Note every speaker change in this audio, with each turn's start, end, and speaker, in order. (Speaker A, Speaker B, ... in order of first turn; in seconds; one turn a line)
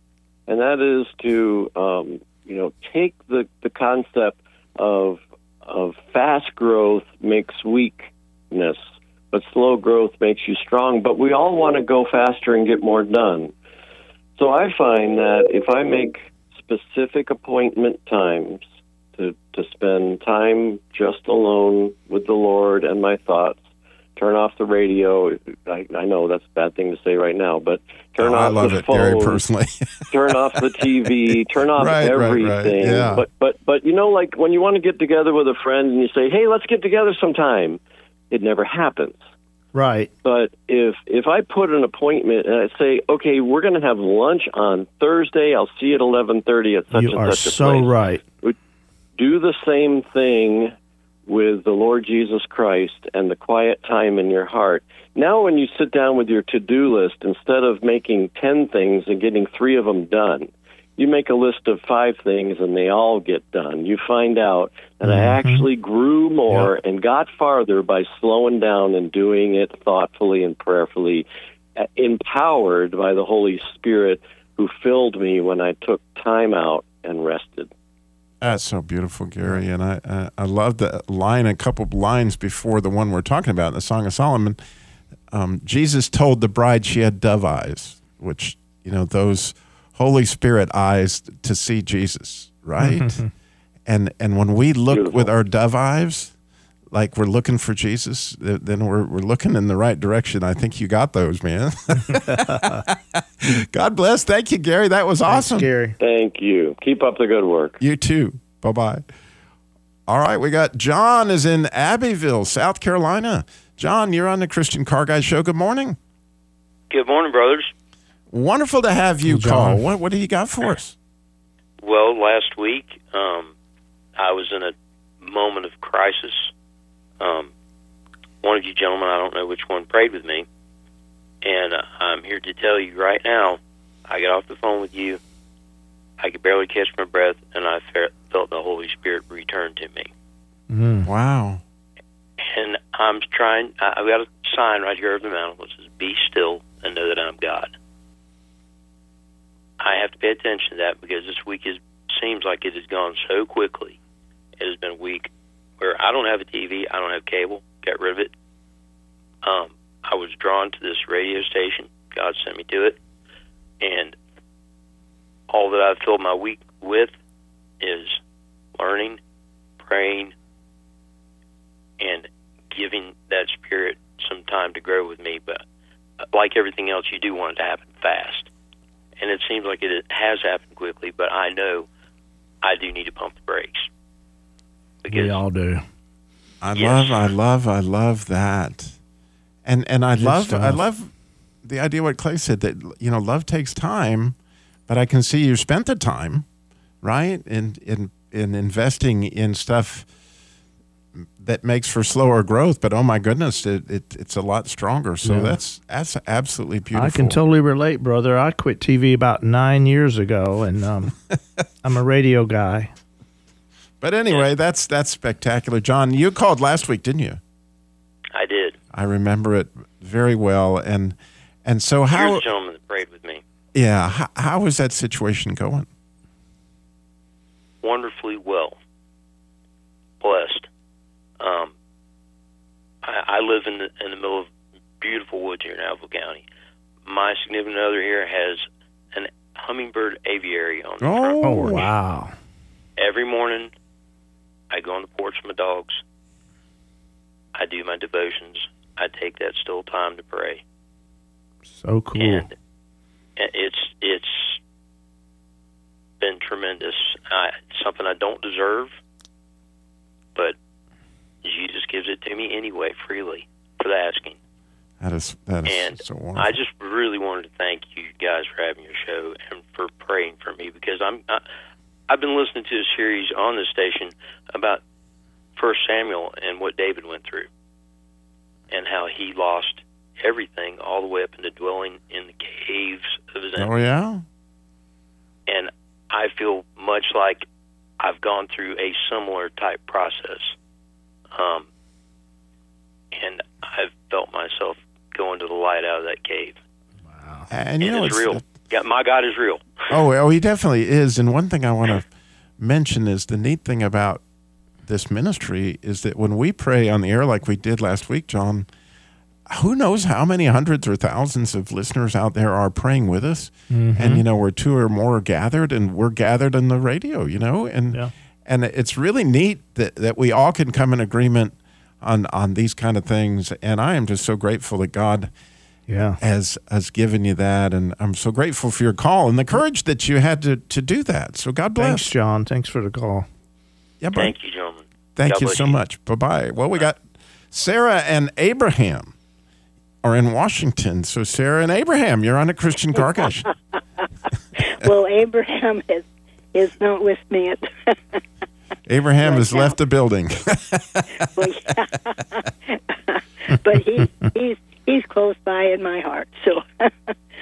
Speaker A: 0.5-8.8
Speaker A: 9.3-13.5
Speaker A: 14.4-18.6
Speaker A: 19.1-23.6
Speaker A: 24.1-29.4
Speaker B: 28.2-29.8
Speaker A: 30.1-39.2
Speaker B: 31.8-33.2
Speaker C: 39.7-40.1
Speaker A: 40.2-48.5
Speaker C: 46.9-48.2
Speaker A: 49.2-50.7
Speaker A: 51.2-77.7
Speaker C: 65.0-65.7
Speaker B: 78.4-84.6
Speaker B: 85.3-93.2
Speaker C: 92.8-93.3
Speaker B: 93.8-96.3
Speaker A: 94.9-95.3
Speaker B: 96.9-105.7
Speaker C: 102.1-102.8
Speaker C: 105.3-106.0
Speaker A: 106.0-107.8
Speaker B: 107.8-109.0
Speaker B: 110.1-116.0
Speaker D: 116.9-117.7
Speaker B: 118.3-121.0
Speaker C: 119.2-119.8
Speaker D: 121.8-123.5
Speaker D: 124.2-126.5
Speaker D: 127.2-127.5
Speaker D: 128.4-130.4
Speaker D: 131.4-135.2
Speaker D: 136.2-140.1
Speaker C: 140.7-141.1
Speaker B: 141.0-141.6
Speaker D: 142.4-147.7
Speaker D: 149.8-154.0
Speaker D: 154.6-158.3
Speaker D: 159.4-163.0
Speaker D: 163.8-164.2
Speaker D: 165.5-167.1
Speaker D: 167.8-168.2
Speaker D: 168.8-169.2
Speaker D: 169.8-170.3
Speaker D: 172.0-175.6
Speaker D: 176.3-178.5
Speaker D: 179.2-181.9
Speaker D: 182.6-183.9
Speaker D: 185.0-185.4
Speaker C: 185.1-185.8
Speaker B: 186.6-188.9
Speaker D: 186.7-187.3
Speaker B: 189.6-191.1
Speaker C: 190.2-190.8
Speaker B: 191.6-194.3
Speaker B: 194.9-196.4
Speaker B: 197.0-200.1
Speaker B: 201.4-207.4
Speaker C: 205.2-205.6
Speaker C: 206.9-211.1
Speaker C: 211.8-212.9
Speaker B: 214.0-217.4
Speaker D: 218.3-218.8
Speaker B: 218.9-222.4
Speaker D: 222.1-223.4
Speaker B: 223.7-225.9
Speaker D: 227.8-228.8
Speaker D: 230.2-230.7
Speaker D: 231.4-231.7
Speaker D: 233.0-234.5
Speaker D: 235.0-236.4
Speaker D: 237.1-241.9
Speaker B: 241.0-241.9
Speaker C: 241.4-242.3
Speaker D: 243.0-243.7
Speaker D: 244.7-246.0
Speaker D: 247.5-250.6
Speaker C: 251.7-252.5
Speaker D: 252.2-252.5
Speaker D: 253.4-254.6
Speaker D: 256.2-258.9
Speaker D: 261.4-264.4
Speaker B: 265.0-266.5
Speaker D: 265.6-271.4
Speaker D: 272.1-274.8
Speaker D: 275.6-277.5
Speaker D: 278.7-283.7
Speaker B: 283.6-284.2
Speaker D: 285.5-287.4
Speaker D: 288.0-290.5
Speaker D: 291.3-291.6
Speaker D: 293.1-296.6
Speaker C: 297.1-297.5
Speaker B: 297.5-298.4
Speaker D: 297.8-299.6
Speaker B: 299.9-302.1
Speaker B: 302.6-304.2
Speaker B: 304.9-308.7
Speaker B: 309.5-325.3
Speaker C: 313.7-314.2
Speaker C: 325.9-326.2
Speaker B: 326.2-332.1
Speaker C: 331.8-333.3
Speaker B: 334.0-334.3
Speaker D: 334.1-335.8
Speaker B: 335.1-337.0
Speaker B: 337.5-339.1
Speaker B: 340.0-343.5
Speaker E: 344.6-348.2
Speaker B: 348.9-351.2
Speaker E: 349.2-349.8
Speaker E: 351.4-357.1